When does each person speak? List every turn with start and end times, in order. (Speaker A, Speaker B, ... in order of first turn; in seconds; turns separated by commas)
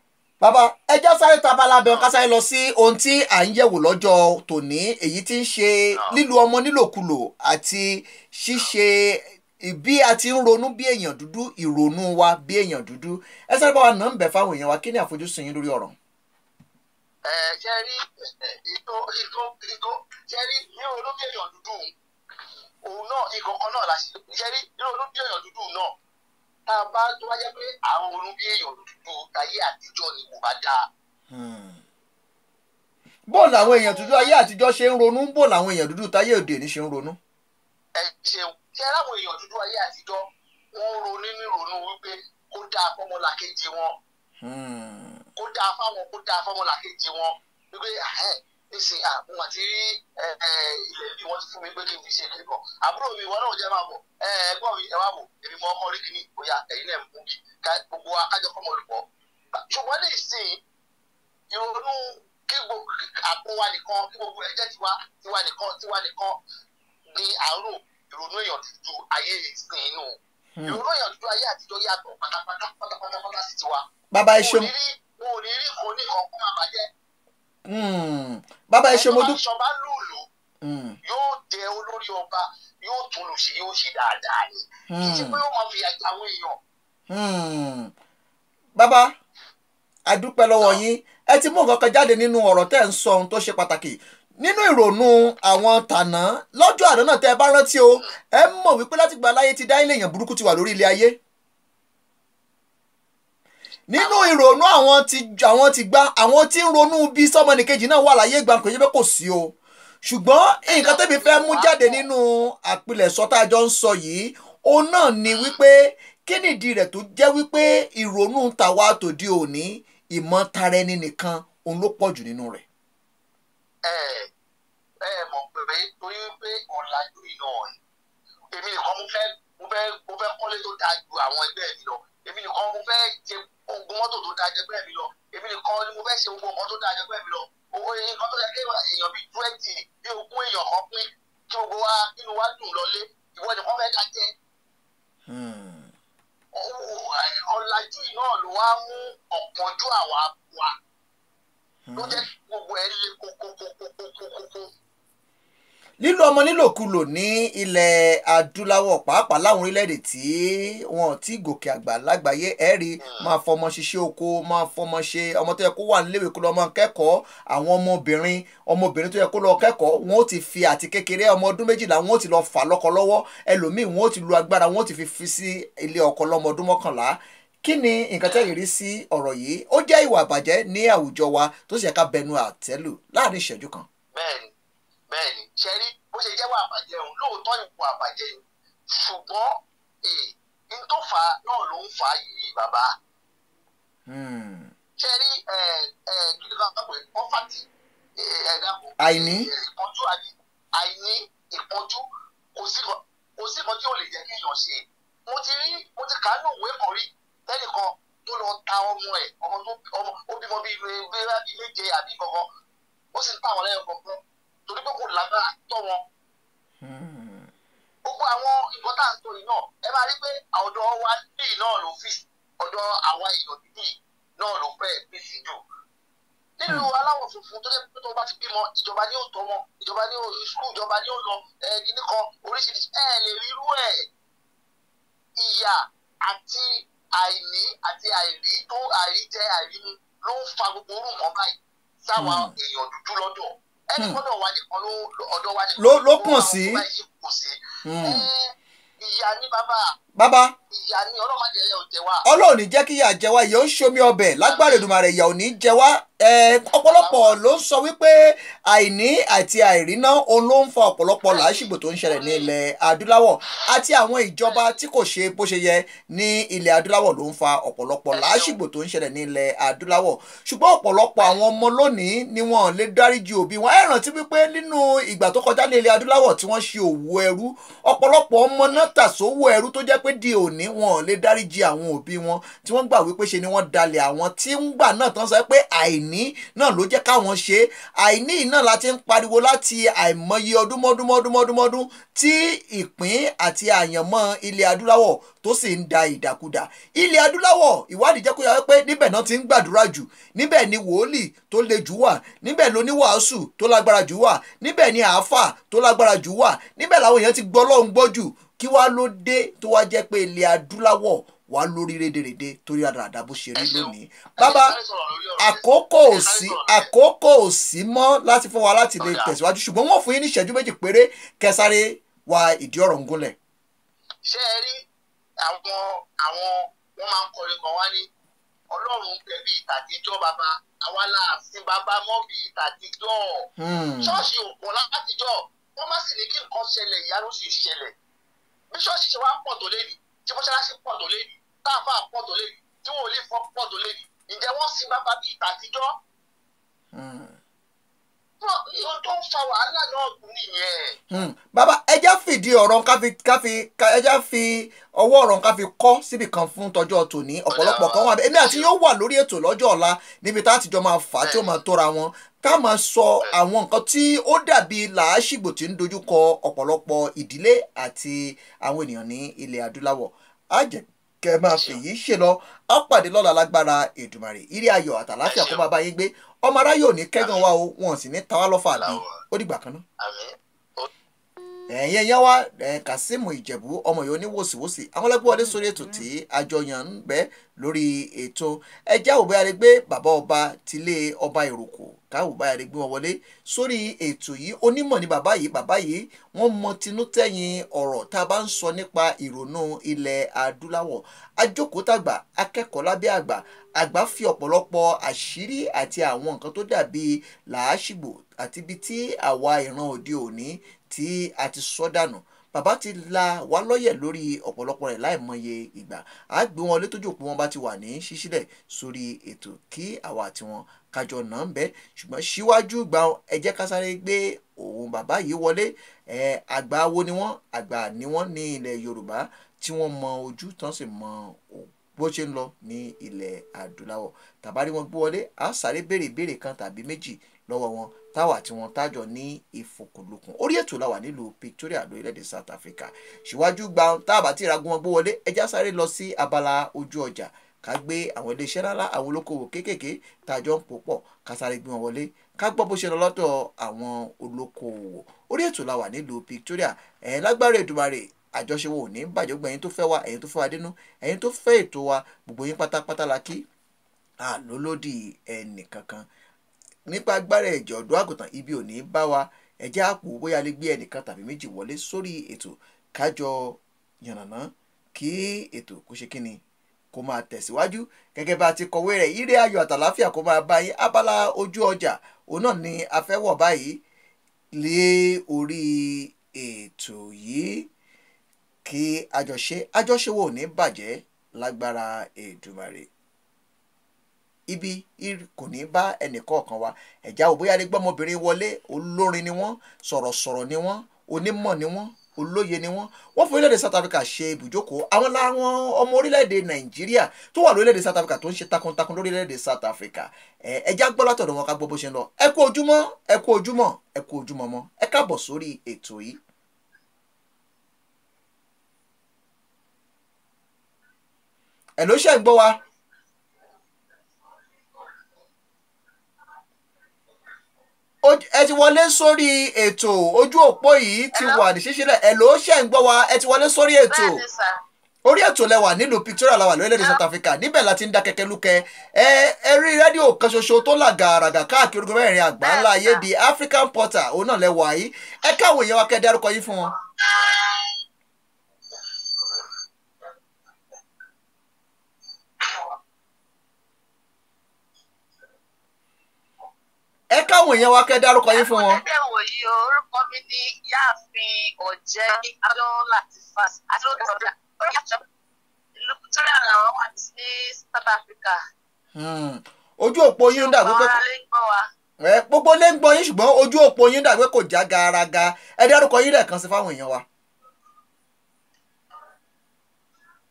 Speaker A: 0.4-16.0, Speaker B: 5.9-6.2, Speaker B: 17.2-21.9, Speaker B: 22.8-25.9, Speaker B: 26.7-30.9, Speaker A: 31.3-31.8, Speaker A: 33.3-37.2, Speaker B: 33.3-34.4, Speaker B: 38.0-44.0, Speaker A: 44.4-45.2, Speaker B: 45.4-59.0, Speaker B: 59.6-60.6, Speaker B: 61.5-66.4, Speaker B: 67.1-73.8, Speaker A: 70.6-70.8, Speaker A: 74.1-74.7, Speaker B: 74.4-76.9, Speaker A: 77.7-79.4, Speaker B: 78.9-80.2, Speaker A: 80.6-81.0, Speaker B: 81.0-86.6, Speaker A: 84.9-85.4, Speaker A: 87.1-87.9, Speaker A: 88.8-89.1, Speaker A: 90.1-101.2, Speaker A: 103.9-122.7, Speaker B: 104.0-104.3, Speaker B: 110.7-112.0, Speaker B: 123.8-124.3, Speaker B: 125.0-127.8, Speaker B: 128.5-144.3, Speaker A: 145.3-145.9, Speaker B: 146.6-150.7, Speaker A: 151.9-152.2, Speaker B: 151.9-154.7, Speaker A: 156.0-183.9, Speaker B: 163.0-163.3, Speaker B: 184.1-184.5, Speaker B: 185.1-192.9, Speaker A: 194.1-194.7, Speaker B: 195.0-202.0, Speaker A: 199.0-199.5, Speaker B: 202.6-212.5, Speaker B: 213.1-216.0, Speaker A: 216.8-217.5, Speaker B: 218.1-225.6, Speaker B: 226.6-234.1, Speaker B: 235.4-249.9, Speaker A: 242.2-242.5, Speaker A: 245.8-246.8, Speaker A: 247.8-248.3, Speaker A: 250.2-250.6, Speaker B: 250.7-252.3, Speaker A: 252.2-314.8, Speaker B: 254.4-254.8, Speaker B: 256.9-257.4, Speaker B: 261.3-262.5, Speaker B: 268.1-268.6, Speaker B: 313.6-316.9, Speaker A: 315.4-323.4, Speaker B: 319.0-319.4, Speaker B: 324.2-324.9, Speaker B: 325.4-328.1, Speaker B: 328.7-333.5, Speaker A: 333.6-334.3, Speaker B: 334.0-337.9, Speaker B: 338.7-345.9, Speaker A: 346.9-347.4, Speaker B: 348.4-351.0, Speaker A: 351.1-379.8, Speaker B: 357.5-358.7, Speaker B: 371.5-371.8, Speaker B: 375.3-375.6, Speaker B: 378.7-379.2, Speaker B: 380.0-380.9, Speaker A: 381.7-463.5, Speaker A: 464.2-466.1, Speaker A: 466.9-476.4, Speaker A: 476.9-483.8, Speaker A: 484.5-487.7, Speaker A: 488.6-492.9, Speaker A: 494.5-516.2, Speaker A: 521.8-522.6, Speaker A: 528.0-534.2, Speaker C: 531.1-531.5, Speaker C: 533.9-534.6, Speaker A: 535.0-546.7, Speaker C: 542.4-543.0, Speaker A: 557.1-558.8, Speaker C: 558.3-565.0, Speaker C: 565.8-568.4, Speaker A: 568.9-570.9, Speaker C: 570.3-571.6, Speaker A: 572.0-577.0